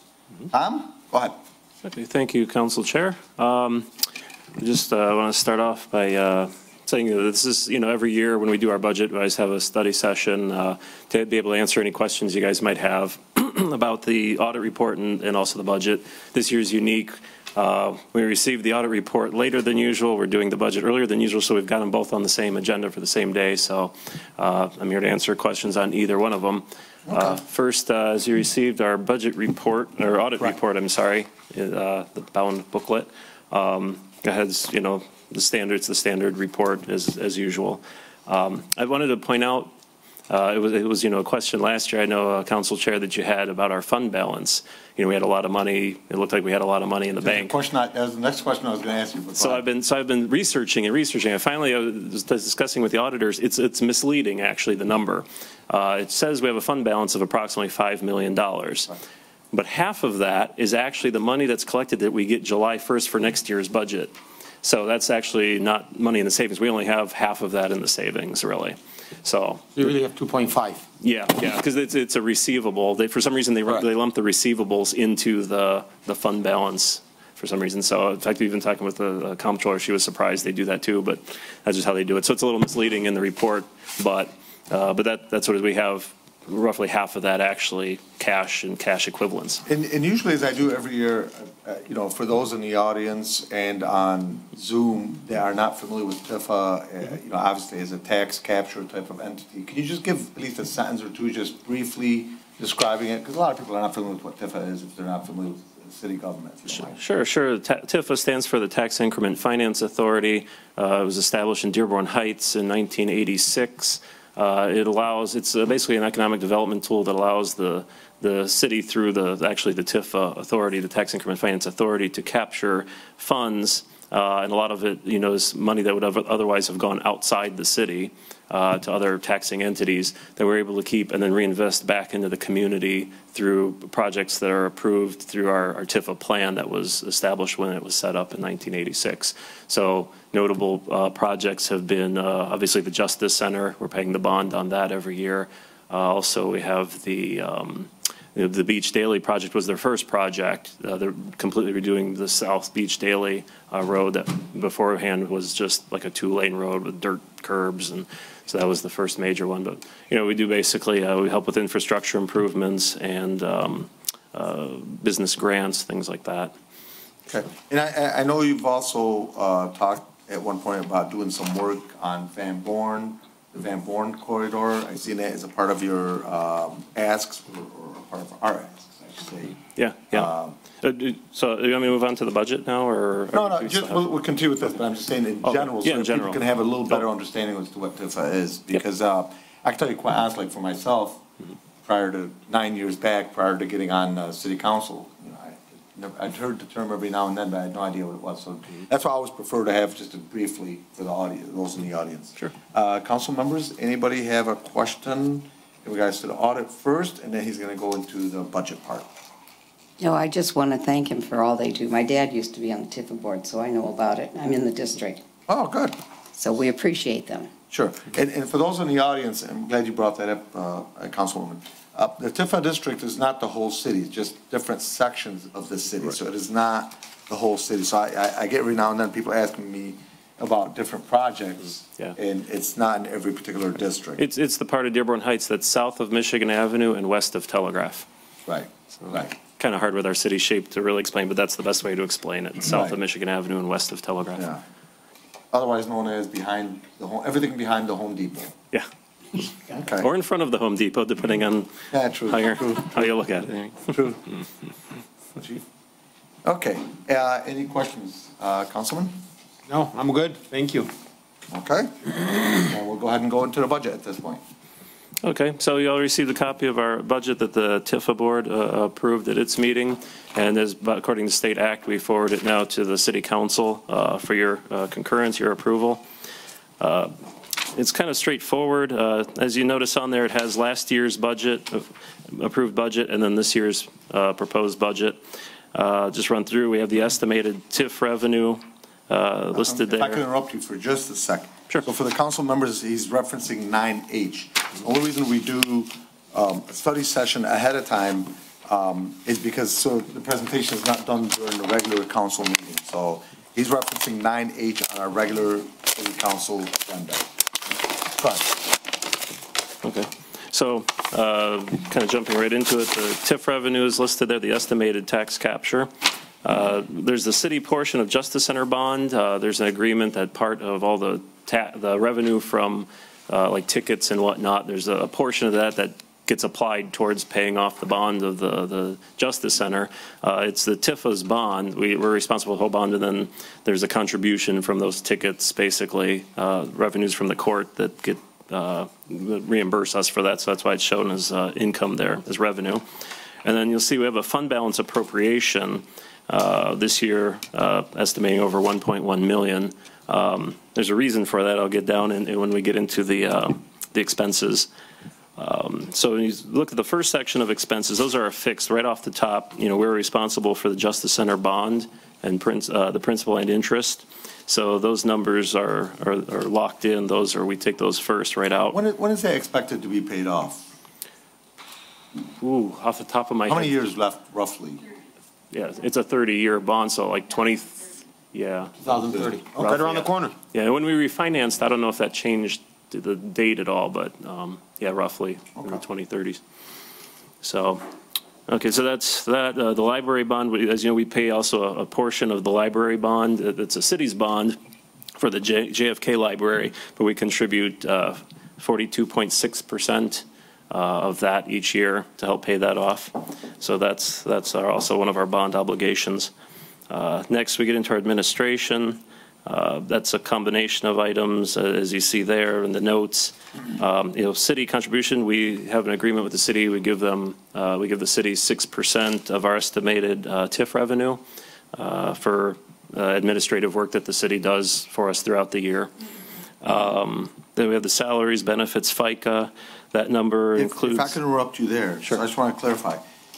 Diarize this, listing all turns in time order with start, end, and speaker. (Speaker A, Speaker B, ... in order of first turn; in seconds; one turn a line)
Speaker A: 0.5-1.4
Speaker B: 1.8-3.9
Speaker B: 4.6-39.7
Speaker A: 27.1-27.4
Speaker B: 40.3-47.5
Speaker A: 47.2-49.6
Speaker B: 49.4-58.9
Speaker B: 59.5-69.8
Speaker C: 69.8-70.8
Speaker B: 71.0-89.6
Speaker A: 89.7-107.0
Speaker B: 106.7-166.5
Speaker A: 167.2-179.6
Speaker B: 179.7-184.1
Speaker A: 180.1-180.6
Speaker A: 183.3-191.2
Speaker B: 185.4-187.1
Speaker A: 191.8-209.1
Speaker D: 210.0-215.2
Speaker A: 215.5-216.0
Speaker D: 216.3-217.5
Speaker A: 217.7-234.2
Speaker B: 234.2-238.1
Speaker A: 238.4-239.3
Speaker B: 239.0-244.5
Speaker A: 242.6-243.0
Speaker A: 244.3-244.6
Speaker A: 245.5-248.5
Speaker B: 248.7-253.9
Speaker A: 249.8-250.1
Speaker A: 251.9-254.2
Speaker A: 255.3-255.6
Speaker A: 256.4-259.1
Speaker C: 259.7-260.9
Speaker A: 261.5-264.4
Speaker B: 265.2-276.0
Speaker B: 276.8-277.1
Speaker B: 277.6-285.2
Speaker B: 285.7-290.2
Speaker A: 289.5-307.3
Speaker A: 308.1-308.6
Speaker B: 309.8-315.9
Speaker B: 316.4-342.8
Speaker B: 343.4-354.7
Speaker B: 355.4-368.8
Speaker A: 368.7-370.6
Speaker B: 372.4-373.8
Speaker A: 373.4-374.8
Speaker B: 375.5-378.8
Speaker C: 378.8-380.3
Speaker B: 379.5-386.4
Speaker B: 387.4-387.8
Speaker B: 388.5-394.6
Speaker B: 395.1-406.3
Speaker B: 406.9-421.2
Speaker B: 421.7-425.9
Speaker B: 426.6-431.2
Speaker A: 430.6-433.0